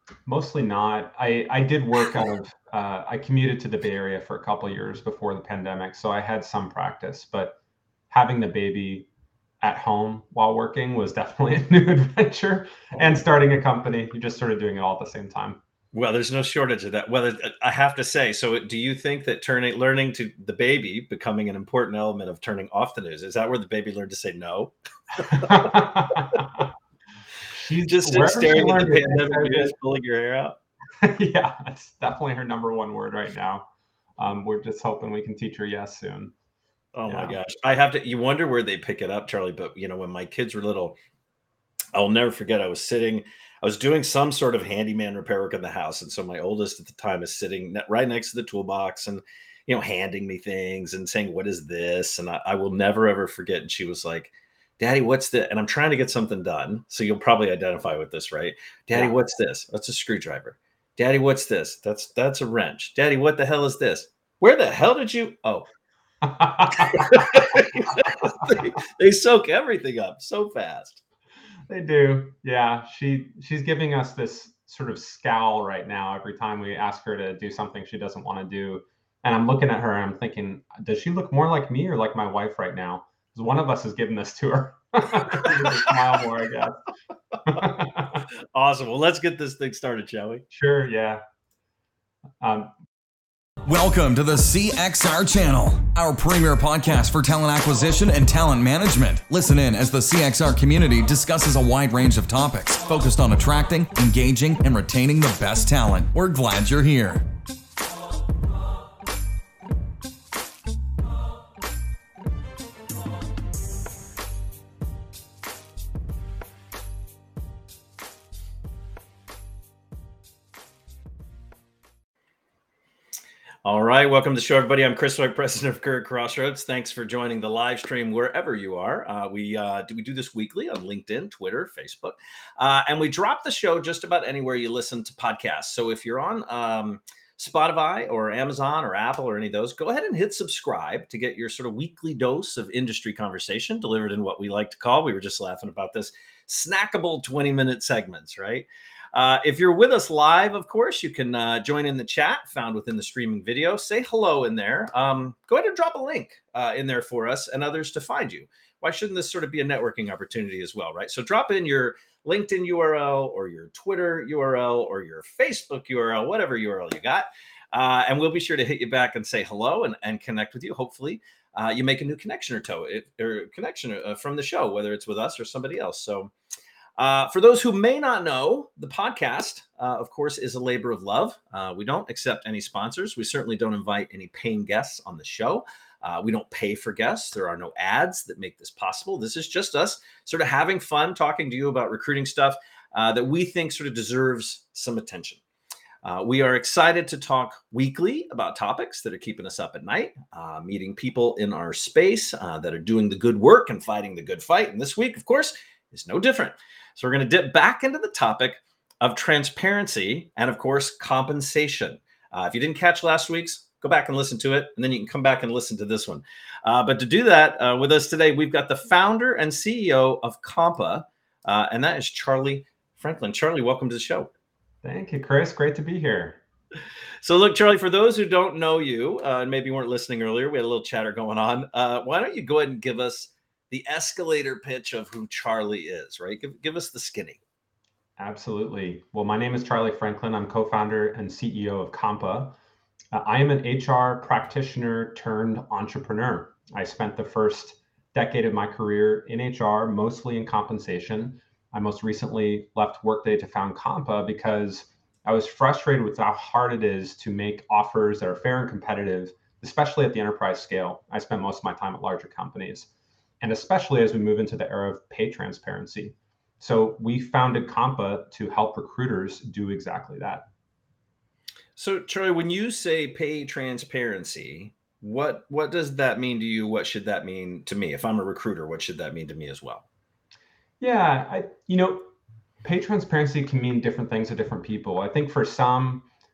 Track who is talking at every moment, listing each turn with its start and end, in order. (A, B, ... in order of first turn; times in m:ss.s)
0:00.3-0:07.6 A
0:08.1-0:09.1 A
0:09.6-0:15.6 A
0:15.9-0:25.7 B
0:25.3-0:26.6 A
0:27.5-0:29.7 A
0:27.9-0:30.6 B
0:31.0-0:36.3 A
0:36.9-0:41.0 B
0:37.1-0:37.4 A
0:42.0-1:05.7 B
1:06.2-1:07.6 A
1:06.8-1:11.0 B
1:11.7-1:26.8 A
1:27.5-1:28.1 A
1:28.5-1:30.4 B
1:30.5-1:31.2 A
1:32.4-1:32.7 A
1:33.7-1:47.2 C
2:03.6-2:56.3 B
2:57.0-3:15.4 B
3:16.0-3:44.3 B
3:44.8-3:46.4 A
3:47.2-3:57.4 B
3:58.2-4:02.6 A
4:03.1-4:22.9 A
4:23.4-4:30.5 A
4:31.8-4:39.9 B
4:40.8-4:42.1 A
4:42.6-4:46.1 A